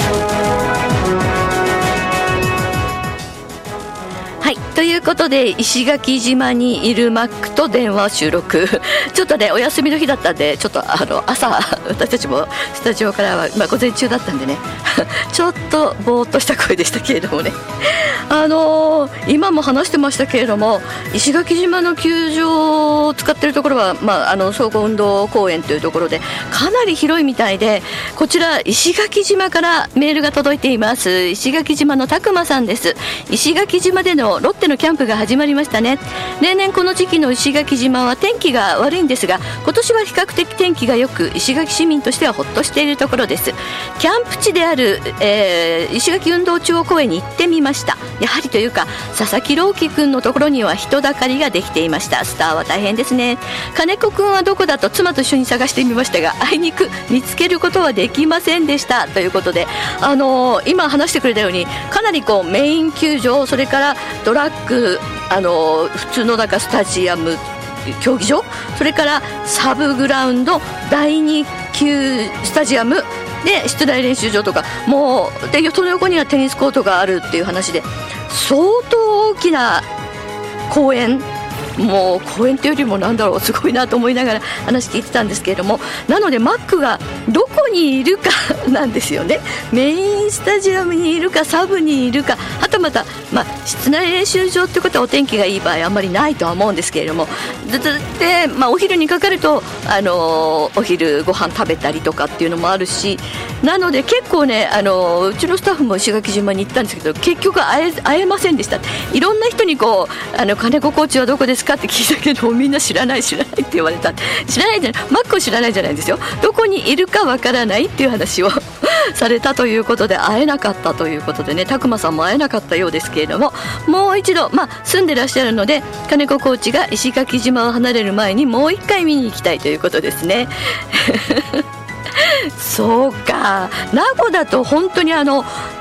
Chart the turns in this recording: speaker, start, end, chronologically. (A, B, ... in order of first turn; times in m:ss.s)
0:04.4-1:19.9 A
1:20.7-2:11.6 A
2:12.2-2:15.5 A